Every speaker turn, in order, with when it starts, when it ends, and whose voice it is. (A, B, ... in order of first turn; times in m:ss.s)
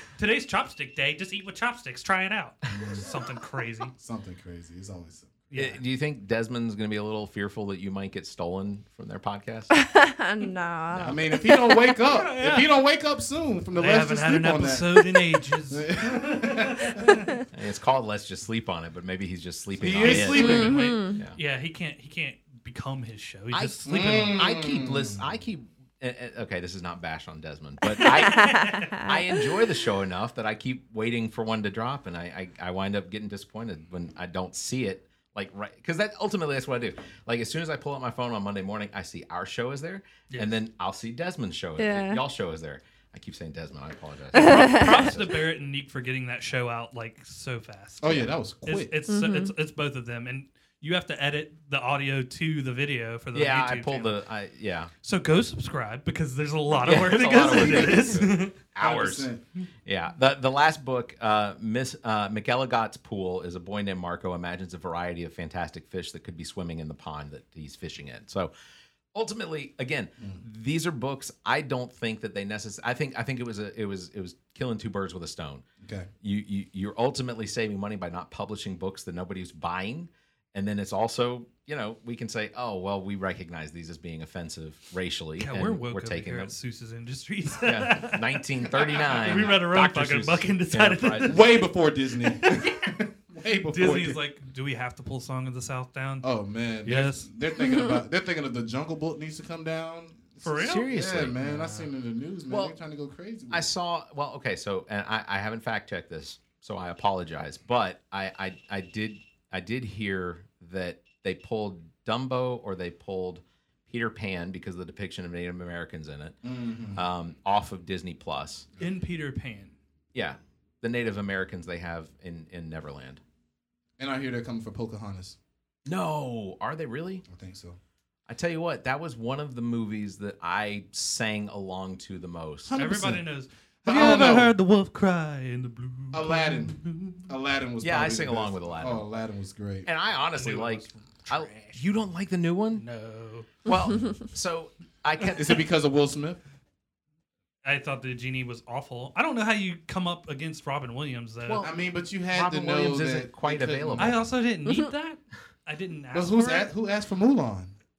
0:00.2-0:03.9 A
0:02.7-0:03.1 B
0:04.0-0:05.5 B
0:05.5-0:05.8 A
0:05.5-0:09.7 C
0:09.7-0:12.0 D
0:10.9-0:11.2 C
0:11.0-0:15.1 B
0:12.0-0:12.7 A
0:13.7-0:17.3 A
0:15.7-0:17.2 B
0:17.0-0:17.3 D
0:17.5-0:21.4 C
0:19.8-0:20.8 B
0:20.0-0:24.4 A
0:20.3-0:21.2 D
0:23.5-0:45.3 C
0:23.8-0:25.2 B
0:28.0-0:29.2 D
0:28.0-0:29.1 A
0:41.8-0:42.2 D
0:44.3-0:45.1 D
0:44.3-0:54.2 A
0:48.0-0:48.9 B
0:49.1-0:49.5 D
0:53.3-0:54.9 C
0:55.0-0:58.9 A
0:56.7-0:59.3 C
0:57.6-0:58.1 D
0:58.8-0:59.4 B
0:59.8-1:08.5 C
1:09.1-1:15.6 C
1:15.8-1:16.1 B
1:16.2-1:26.5 C
1:25.4-1:31.6 A
1:27.6-1:31.4 C
1:31.2-1:34.2 B
1:32.4-1:32.7 A
1:33.7-1:36.3 A
1:36.2-1:43.7 B
1:36.8-1:37.3 A
1:37.6-1:37.9 D
1:40.4-1:41.9 A
1:40.6-1:41.4 C
1:42.5-1:42.7 C
1:43.5-1:56.4 C
1:56.4-1:57.0 B
1:56.9-1:58.7 C
1:58.8-1:59.7 A
2:00.1-2:03.2 C
2:04.0-2:05.4 B
2:05.8-2:07.2 C
2:07.3-2:07.8 B
2:08.3-2:12.7 C
2:12.6-2:13.2 B
2:12.7-2:17.3 A
2:13.8-2:14.5 B
2:16.1-2:19.9 B
2:17.8-2:19.0 C
2:19.8-2:22.8 C
2:20.3-2:21.8 A
2:22.7-2:23.5 A
2:23.6-2:25.6 C
2:25.4-2:26.4 B
2:27.6-2:31.6 A
2:31.4-2:31.7 C
2:31.6-2:34.2 B
2:32.3-2:34.2 C
2:34.0-2:36.7 A
2:36.1-2:37.7 B